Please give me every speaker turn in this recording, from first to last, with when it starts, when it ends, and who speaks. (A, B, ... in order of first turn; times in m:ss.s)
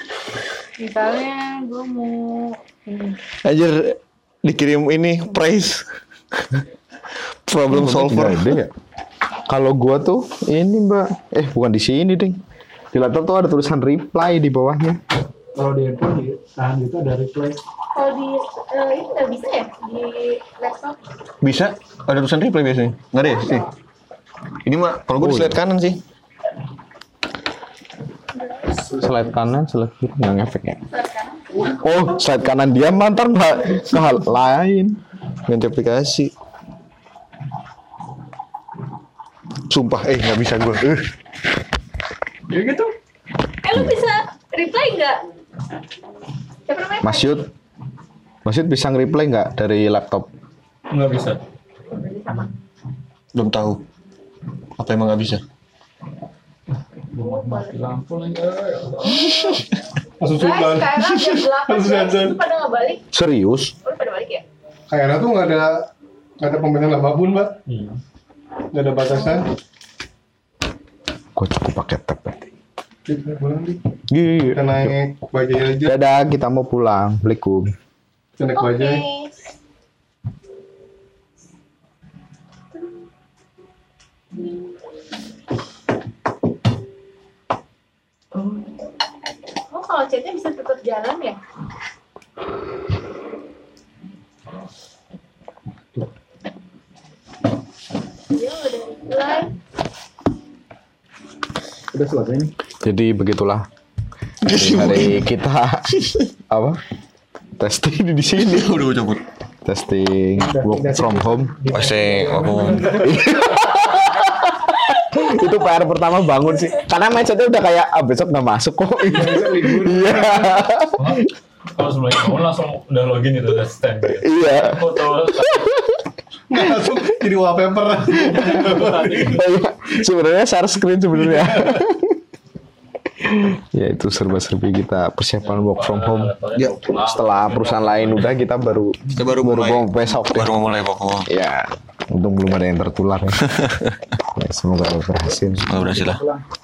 0:00.8-0:03.2 A
0:03.4-0:05.9 B
0:07.5-0:08.6 B
0:07.7-0:08.7 C
0:09.5-0:12.4 C
0:12.9-0:15.0 C
0:15.5-0:17.6 D
0:17.9-0:21.0 A
0:21.4-0:23.6 B
0:24.6-0:26.0 B
0:25.2-0:25.6 C
0:28.8-0:30.8 C
0:30.9-0:31.6 A
0:31.8-0:35.0 C
0:35.5-0:36.3 B
0:39.7-0:41.1 B
0:42.5-0:42.9 E
0:43.6-0:45.2 A
0:46.7-0:47.4 A
0:47.0-0:47.5 C
0:48.4-0:50.3 C
0:50.9-0:51.4 E
0:51.9-0:52.5 A
0:53.3-0:53.8 B
0:54.8-0:55.4 B
0:57.1-0:59.5 E
0:57.2-0:57.8 A
0:59.0-0:59.6 A
1:00.2-1:02.4 F
1:00.4-1:03.0 A
1:03.1-1:03.7 C
1:03.8-1:04.4 A
1:04.9-1:05.9 F
1:06.4-1:07.5 F
1:07.7-1:08.0 E
1:08.7-1:09.5 F
1:11.4-1:12.5 C
1:13.0-1:13.8 F
1:14.1-1:14.9 C
1:14.5-1:15.9 F
1:15.8-1:17.7 C
1:18.4-1:19.1 F
1:18.6-1:19.3 A
1:29.7-1:31.4 A
1:38.3-1:39.5 A
1:41.9-1:42.5 D
1:42.8-1:43.7 C
1:44.4-1:45.3 B
1:44.4-1:46.8 C
1:46.0-1:46.2 B
1:47.6-1:48.8 C
1:48.4-1:49.2 B
1:49.6-1:51.6 C
1:50.4-1:53.3 D
1:51.7-1:53.2 B
1:52.8-2:01.2 C
1:59.0-2:00.6 D
2:01.0-2:05.8 E
2:04.2-2:04.9 C
2:05.4-2:05.9 C
2:06.5-2:09.4 F
2:08.3-2:09.4 E
2:09.2-2:12.2 C
2:13.2-2:16.3 C
2:15.4-2:18.3 E
2:17.0-2:20.5 C
2:19.1-2:21.3 B
2:21.2-2:23.6 C
2:23.4-2:24.0 B
2:24.3-2:25.9 C
2:25.3-2:26.4 D
2:25.7-2:26.2 B